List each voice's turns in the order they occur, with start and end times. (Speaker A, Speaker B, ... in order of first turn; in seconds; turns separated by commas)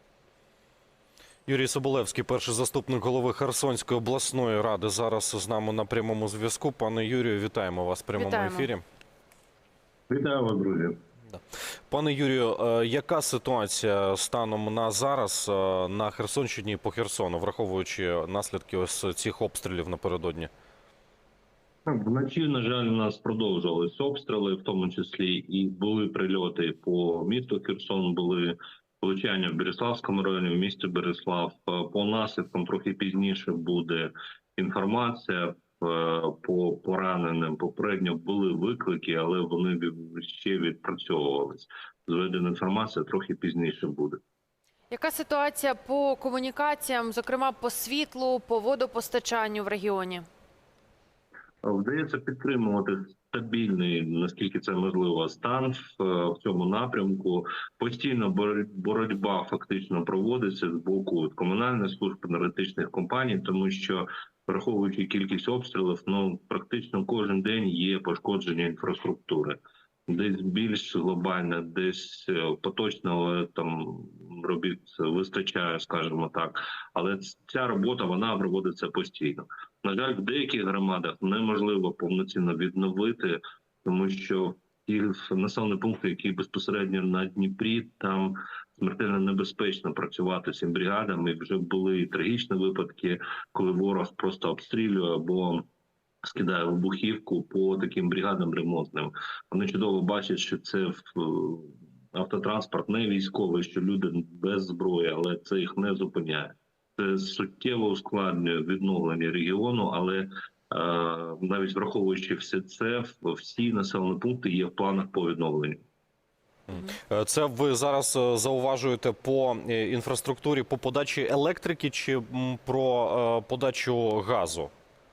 Speaker A: 1.5-8.8, Speaker B: 8.2-8.7, Speaker C: 10.1-11.0, Speaker A: 11.3-20.5, Speaker C: 21.9-44.2, Speaker B: 44.9-50.2, Speaker C: 51.6-95.7, Speaker C: 96.2-115.8, Speaker A: 116.7-124.7